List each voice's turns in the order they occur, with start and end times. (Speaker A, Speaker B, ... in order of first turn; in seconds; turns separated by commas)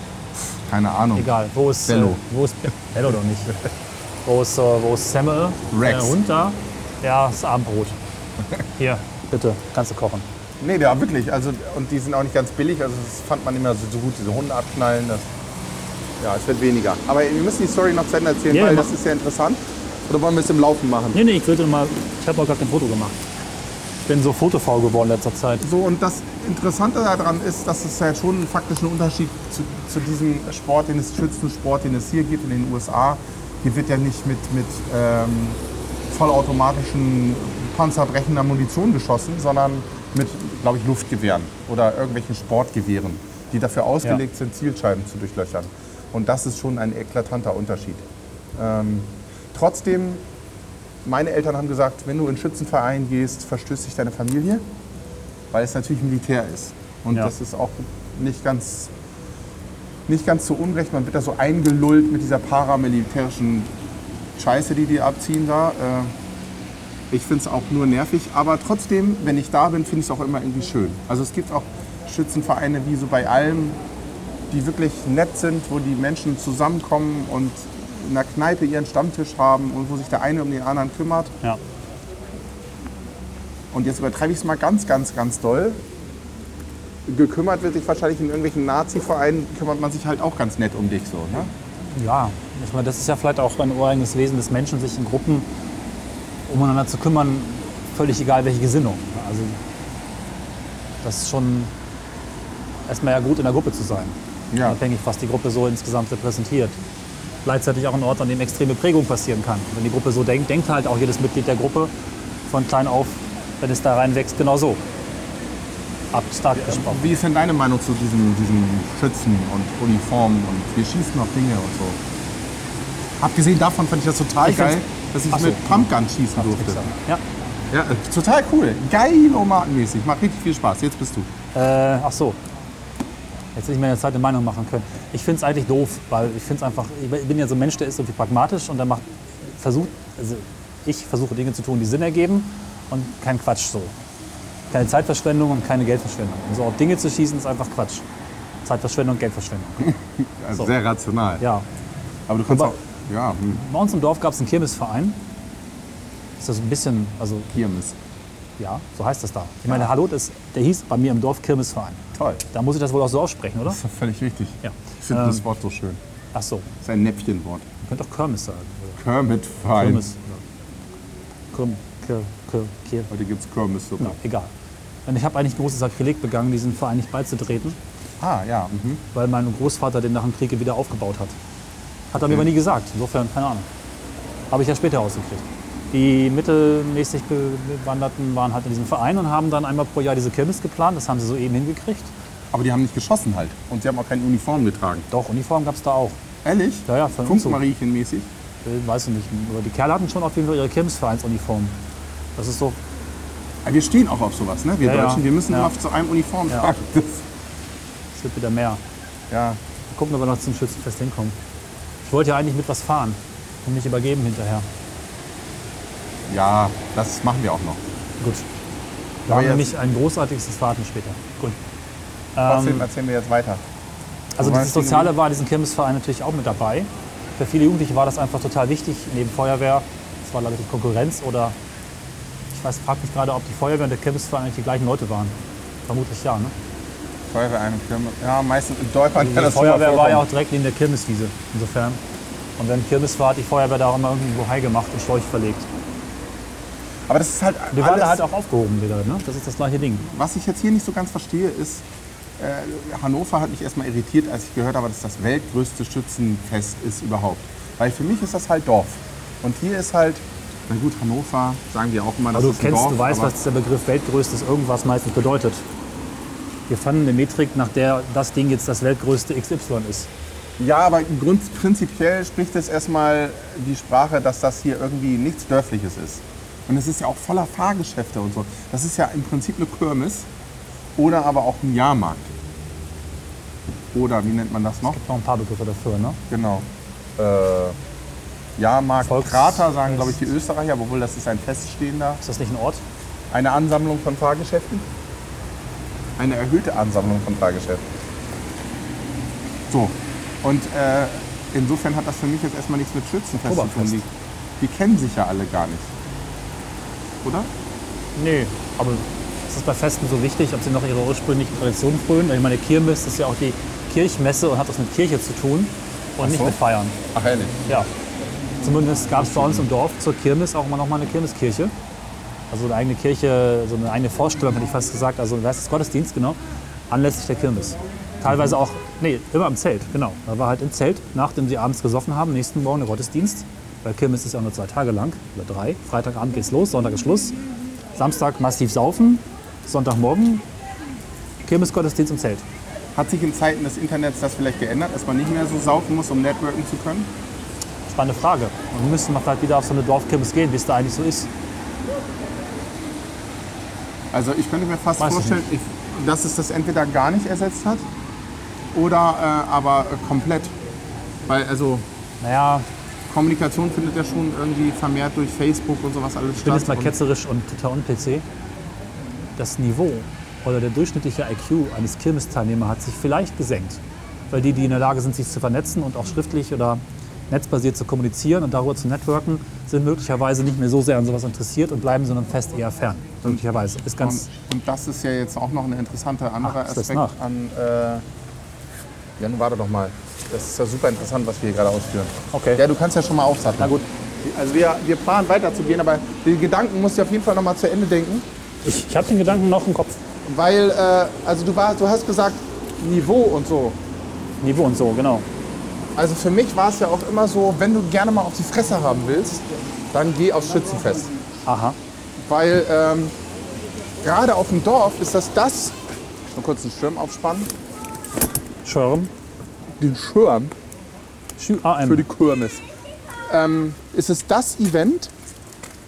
Speaker A: 0.3-1.3, Speaker B: 1.1-3.5, Speaker A: 1.9-2.2, Speaker B: 4.2-8.0, Speaker A: 5.7-6.2, Speaker B: 8.8-10.3, Speaker A: 10.6-15.3, Speaker A: 16.2-21.2, Speaker B: 18.5-18.9, Speaker B: 21.1-23.2, Speaker B: 24.1-25.7, Speaker A: 25.6-50.2, Speaker A: 51.0-54.6, Speaker A: 55.5-58.9, Speaker A: 60.1-63.8, Speaker A: 64.4-66.1, Speaker A: 67.1-73.8, Speaker A: 74.5-81.3, Speaker A: 83.7-85.8, Speaker A: 87.1-91.5, Speaker B: 91.8-95.5, Speaker B: 96.5-99.6, Speaker B: 101.0-101.7, Speaker B: 102.9-106.8, Speaker A: 104.5-104.8, Speaker B: 107.5-111.9, Speaker B: 112.5-114.8, Speaker B: 116.1-117.2, Speaker A: 116.5-122.0, Speaker A: 123.2-126.9, Speaker B: 124.4-127.2, Speaker A: 127.7-131.3, Speaker B: 131.5-132.4, Speaker B: 133.6-143.9, Speaker B: 144.7-148.1, Speaker B: 148.6-150.0, Speaker A: 149.8-151.4, Speaker B: 151.4-151.7, Speaker A: 152.3-153.6, Speaker B: 152.5-152.7, Speaker B: 153.5-155.2, Speaker B: 156.4-157.5, Speaker A: 157.5-158.0, Speaker B: 158.6-163.8, Speaker A: 162.1-162.4, Speaker A: 163.7-166.0, Speaker B: 164.6-165.4, Speaker B: 166.3-166.7, Speaker A: 166.8-167.7, Speaker B: 167.9-169.0, Speaker A: 169.0-170.0, Speaker B: 169.8-170.4, Speaker B: 171.5-173.1, Speaker A: 173.1-174.2, Speaker B: 174.0-174.5, Speaker B: 175.1-177.8, Speaker A: 178.2-179.0, Speaker B: 179.1-181.4, Speaker A: 182.1-182.5, Speaker B: 182.1-183.7, Speaker B: 184.5-192.1, Speaker A: 192.5-195.1, Speaker B: 195.1-196.2, Speaker A: 196.4-198.3, Speaker B: 196.9-197.6, Speaker B: 198.6-201.8, Speaker B: 202.4-202.8, Speaker A: 203.7-207.3, Speaker B: 204.8-205.7, Speaker B: 208.1-208.8, Speaker A: 209.3-209.6, Speaker B: 209.9-211.4, Speaker B: 212.0-214.7, Speaker A: 216.3-217.8, Speaker B: 218.2-218.4, Speaker B: 219.3-221.6, Speaker A: 219.3-219.8, Speaker B: 222.3-222.9, Speaker A: 222.4-223.6, Speaker B: 224.3-231.6, Speaker A: 224.4-225.1, Speaker B: 232.5-236.5, Speaker A: 237.3-240.3, Speaker B: 239.2-242.0, Speaker B: 242.6-245.7, Speaker A: 247.1-248.2, Speaker B: 247.7-250.1, Speaker A: 250.1-251.8, Speaker A: 252.4-263.3, Speaker B: 262.3-265.6, Speaker B: 266.7-270.1, Speaker A: 270.6-280.3, Speaker A: 281.0-282.3, Speaker A: 283.9-285.0, Speaker B: 284.9-286.2, Speaker A: 286.3-286.7, Speaker A: 287.2-287.8, Speaker A: 288.6-292.2, Speaker B: 289.0-290.2, Speaker B: 292.2-292.8, Speaker A: 293.3-294.9, Speaker A: 296.2-297.8, Speaker A: 299.7-304.1, Speaker B: 303.4-304.1, Speaker A: 304.6-305.9, Speaker A: 307.2-307.5, Speaker B: 308.2-317.0, Speaker A: 316.2-316.6, Speaker A: 317.1-317.6, Speaker B: 318.6-321.7, Speaker A: 319.2-319.6, Speaker B: 322.5-337.4, Speaker B: 337.9-340.4, Speaker B: 341.4-342.4, Speaker A: 342.9-347.2, Speaker B: 347.9-351.3, Speaker A: 354.1-357.9, Speaker B: 355.0-355.5, Speaker A: 358.7-360.6, Speaker A: 361.3-361.9, Speaker B: 362.2-362.7, Speaker A: 363.1-367.0, Speaker B: 366.4-368.2, Speaker B: 369.4-384.3, Speaker A: 384.0-388.0, Speaker B: 386.4-387.1, Speaker A: 389.2-398.3, Speaker B: 392.3-392.6, Speaker B: 393.6-393.9, Speaker B: 398.6-400.0, Speaker A: 400.2-403.8, Speaker B: 404.4-405.3, Speaker A: 406.0-411.1, Speaker B: 411.5-411.8, Speaker A: 412.2-413.1, Speaker A: 414.0-415.8, Speaker A: 416.3-417.5, Speaker B: 418.6-419.1, Speaker A: 419.8-420.5, Speaker B: 421.4-422.1, Speaker A: 421.8-422.6, Speaker A: 423.3-425.1